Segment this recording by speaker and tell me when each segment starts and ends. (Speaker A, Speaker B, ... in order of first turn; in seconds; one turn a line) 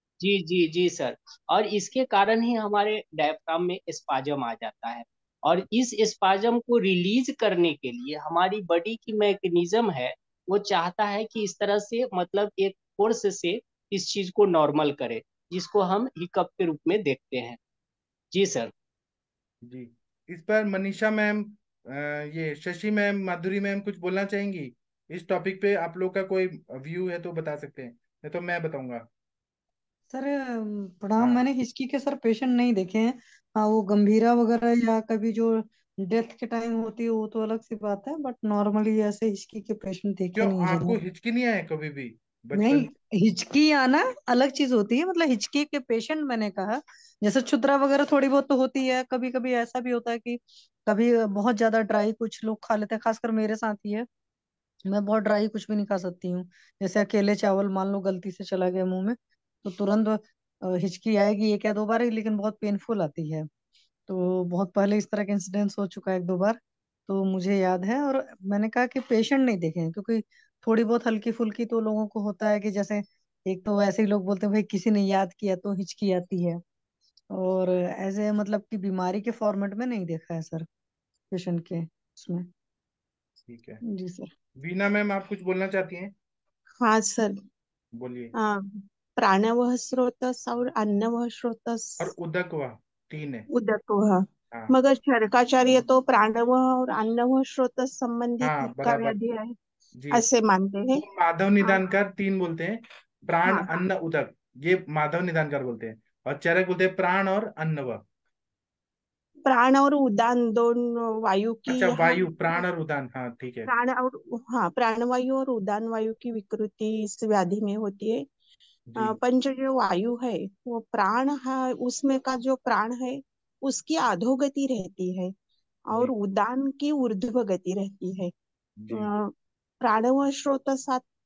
Speaker A: 0.2-17.6
Speaker A: 18.3-18.7
Speaker B: 19.6-29.1
Speaker C: 30.1-41.0
Speaker B: 31.2-31.5
Speaker B: 40.4-42.9
Speaker C: 42.5-54.1
Speaker C: 54.9-63.5
Speaker C: 64.1-76.6
Speaker C: 77.3-80.7
Speaker C: 81.3-82.5
Speaker B: 83.5-83.8
Speaker C: 83.9-84.3
Speaker B: 84.6-86.1
Speaker D: 86.8-87.3
Speaker B: 88.0-88.3
Speaker D: 88.4-92.1
Speaker B: 92.0-93.5
Speaker D: 93.5-99.5
Speaker B: 98.4-99.2
Speaker B: 100.0-100.2
Speaker D: 100.1-101.0
Speaker B: 101.0-108.0
Speaker D: 103.5-103.7
Speaker D: 109.5-112.6
Speaker B: 111.7-113.7
Speaker D: 113.7-118.2
Speaker B: 118.9-119.2
Speaker D: 119.0-125.3
Speaker D: 125.9-128.3
Speaker B: 128.8-129.1
Speaker D: 128.9-131.0